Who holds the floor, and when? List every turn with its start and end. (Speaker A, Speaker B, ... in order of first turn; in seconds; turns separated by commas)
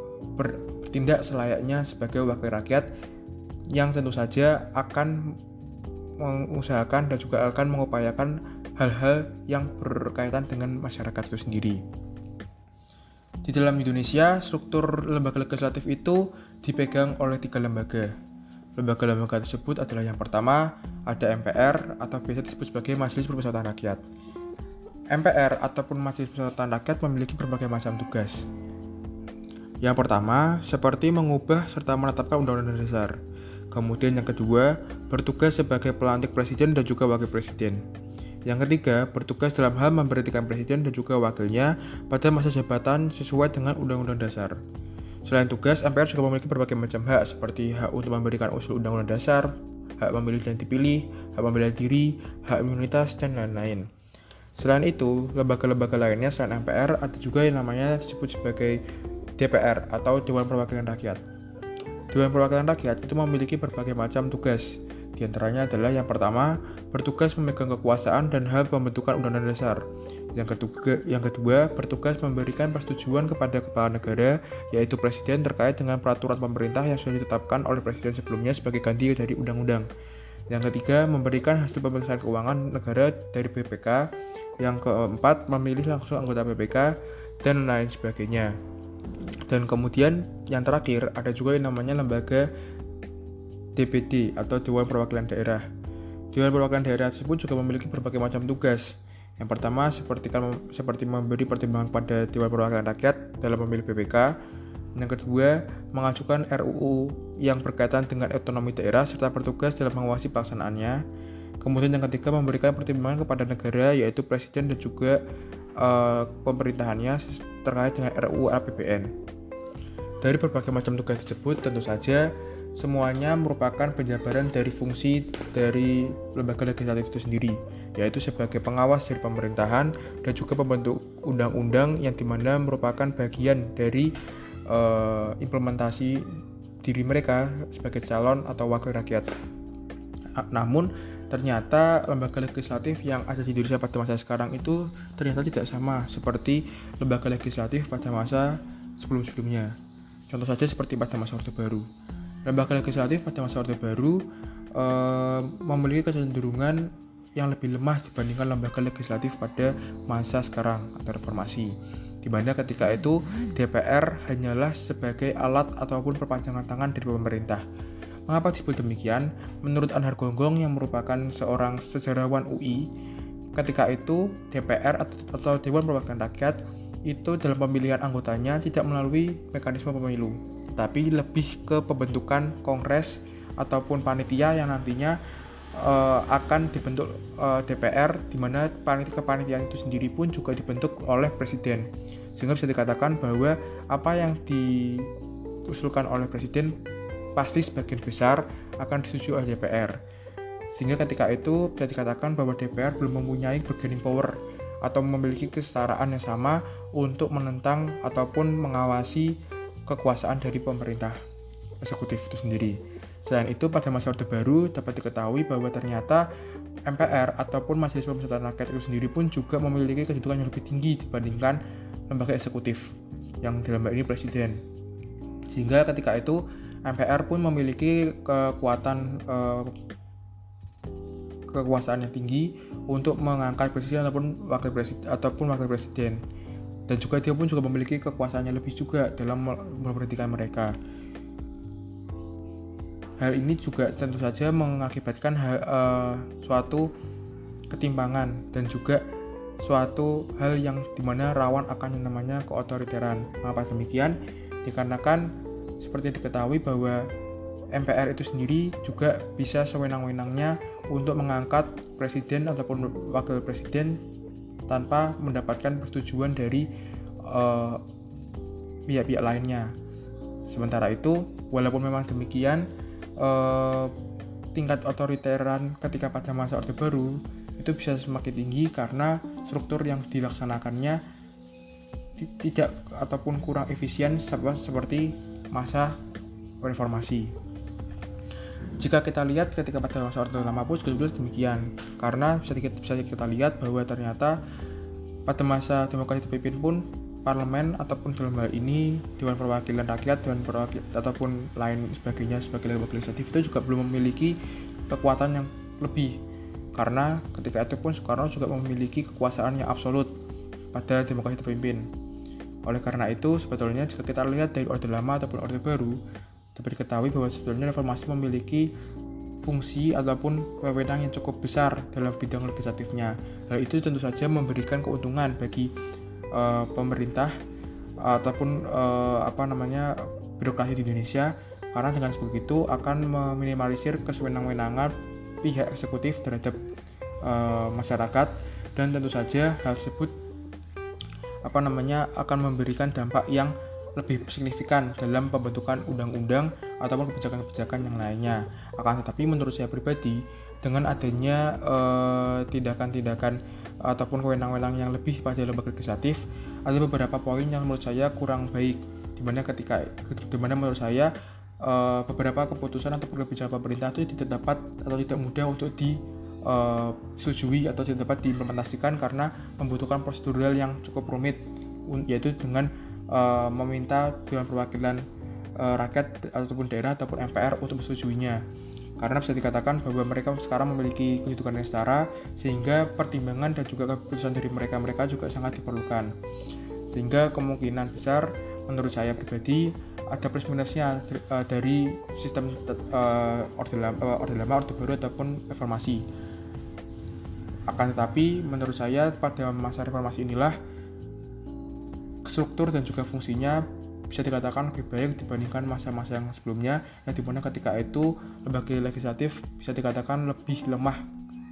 Speaker A: 0.3-2.9, Speaker A: 3.7-5.3, Speaker A: 6.2-11.8, Speaker A: 13.4-18.1, Speaker A: 18.8-24.0, Speaker A: 25.1-28.5, Speaker A: 29.8-33.2, Speaker A: 33.7-37.8, Speaker A: 38.5-44.5, Speaker A: 45.2-53.9, Speaker A: 54.6-58.8, Speaker A: 59.4-61.2, Speaker A: 62.1-79.9, Speaker A: 80.5-84.1, Speaker A: 84.6-88.5, Speaker A: 89.5-92.5, Speaker A: 93.8-95.6, Speaker A: 96.3-104.4, Speaker A: 105.0-111.0, Speaker A: 111.6-115.2, Speaker A: 115.8-119.1, Speaker A: 120.2-134.1, Speaker A: 134.7-136.3, Speaker A: 136.8-139.3, Speaker A: 140.4-149.7, Speaker A: 150.3-151.8, Speaker A: 152.4-167.6, Speaker A: 168.3-172.9, Speaker A: 173.5-185.2, Speaker A: 185.8-195.1, Speaker A: 195.7-196.7, Speaker A: 197.3-200.0, Speaker A: 200.7-211.2, Speaker A: 211.8-216.3, Speaker A: 216.8-222.9, Speaker A: 223.4-224.6, Speaker A: 225.5-229.7, Speaker A: 231.5-236.2, Speaker A: 236.9-240.7, Speaker A: 243.2-246.9, Speaker A: 247.7-249.0, Speaker A: 249.6-257.1, Speaker A: 257.7-264.0, Speaker A: 264.7-266.7, Speaker A: 267.2-267.8, Speaker A: 268.9-269.7, Speaker A: 270.5-273.9, Speaker A: 274.5-281.0, Speaker A: 282.2-286.0, Speaker A: 286.6-287.3, Speaker A: 288.8-294.4, Speaker A: 295.2-304.4, Speaker A: 304.9-306.2, Speaker A: 306.7-310.1, Speaker A: 310.7-311.9, Speaker A: 312.6-316.0, Speaker A: 316.6-318.7, Speaker A: 319.4-325.7, Speaker A: 326.3-327.3, Speaker A: 328.0-336.6, Speaker A: 337.2-340.1, Speaker A: 341.4-375.0, Speaker A: 375.6-378.4, Speaker A: 379.0-386.1, Speaker A: 386.9-396.0, Speaker A: 397.7-400.6, Speaker A: 402.2-411.0